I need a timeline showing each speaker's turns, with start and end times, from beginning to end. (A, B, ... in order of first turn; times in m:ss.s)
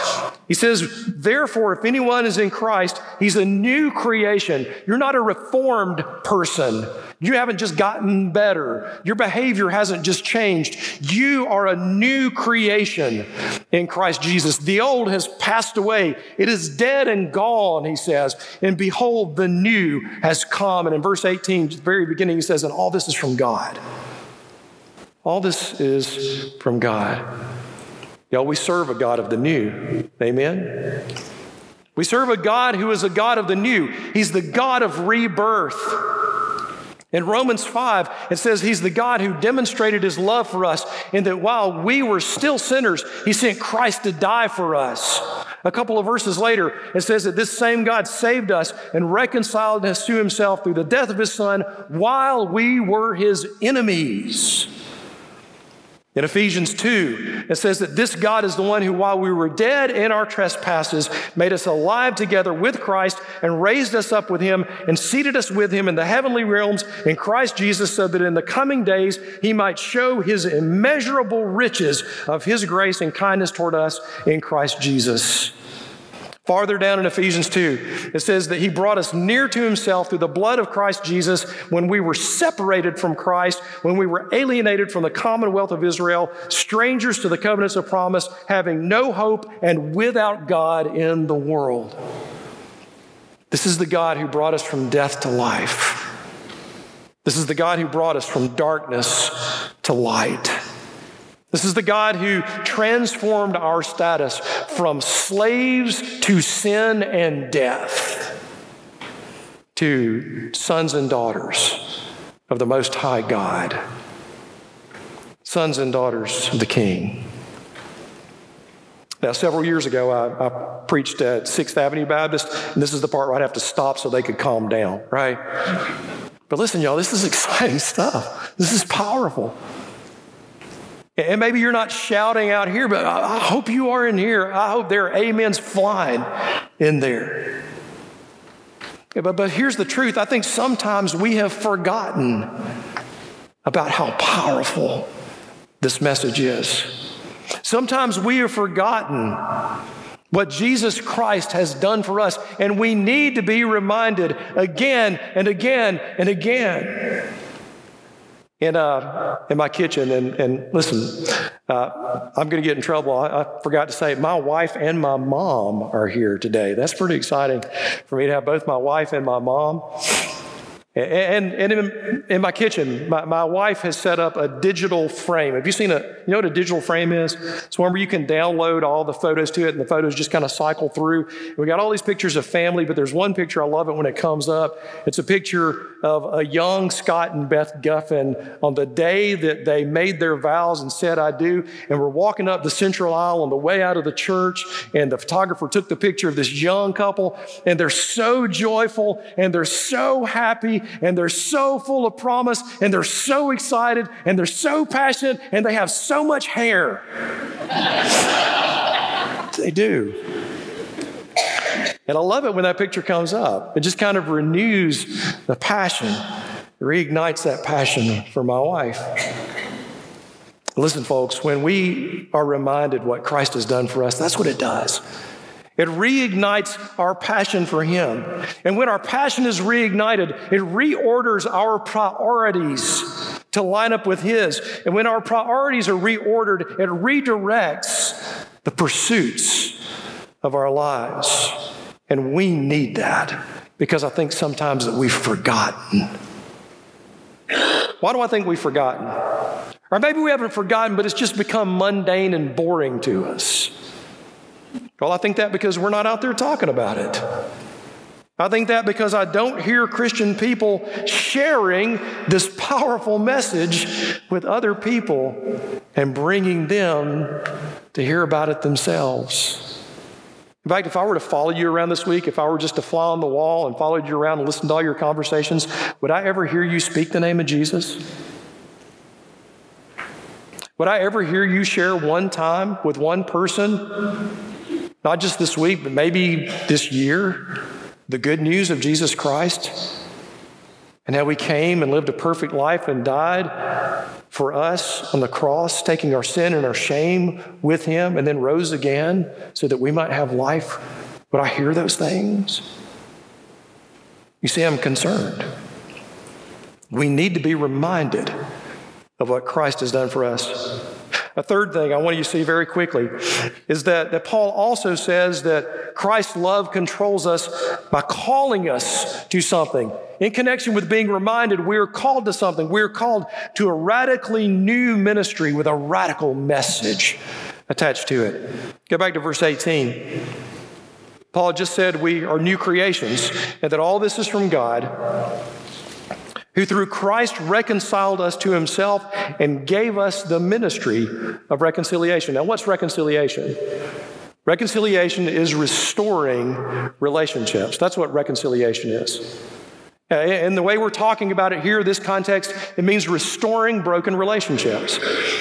0:00.5-0:23.8 A
0:25.2-0:27.2 A
0:28.3-0:31.0 A
0:32.0-0:36.0 A
0:37.1-0:54.7 A
0:56.1-1:15.5 A
1:16.4-1:32.0 A
1:33.5-1:36.0 A
1:37.2-1:40.6 A
1:41.5-1:48.3 A
1:49.7-1:51.8 A
1:52.5-1:53.8 A
1:55.4-1:57.2 A
1:59.2-2:05.4 A
2:06.5-2:09.5 A
2:11.2-2:16.3 A
2:16.8-2:17.6 A
2:19.1-2:22.5 A
2:23.6-2:25.1 A
2:25.8-2:26.9 A
2:27.6-2:29.4 A
2:30.3-2:37.2 A
2:38.6-2:49.8 A
2:50.9-3:27.0 A
3:29.5-3:30.2 A
3:32.1-3:36.2 A
3:36.8-3:39.0 A
3:40.8-3:45.0 A
3:45.8-3:59.8 A
4:00.4-4:01.6 A
4:02.1-4:06.1 A
4:08.0-4:09.2 A
4:09.9-4:13.7 A
4:15.0-4:17.2 A
4:18.4-4:25.4 A
4:25.9-4:27.4 A
4:27.9-4:29.7 A
4:30.6-4:38.0 A
4:40.8-4:43.9 A
4:45.0-4:47.5 A
4:48.1-4:49.9 A
4:51.0-4:53.5 A
4:54.3-5:00.8 A
5:01.3-5:02.6 A
5:04.4-5:05.5 A
5:06.9-5:08.3 A
5:09.2-5:10.7 A
5:11.4-5:13.1 A
5:13.7-5:30.2 A
5:31.3-5:34.9 A
5:36.5-5:43.6 A
5:44.4-5:49.3 A
5:50.1-5:55.0 A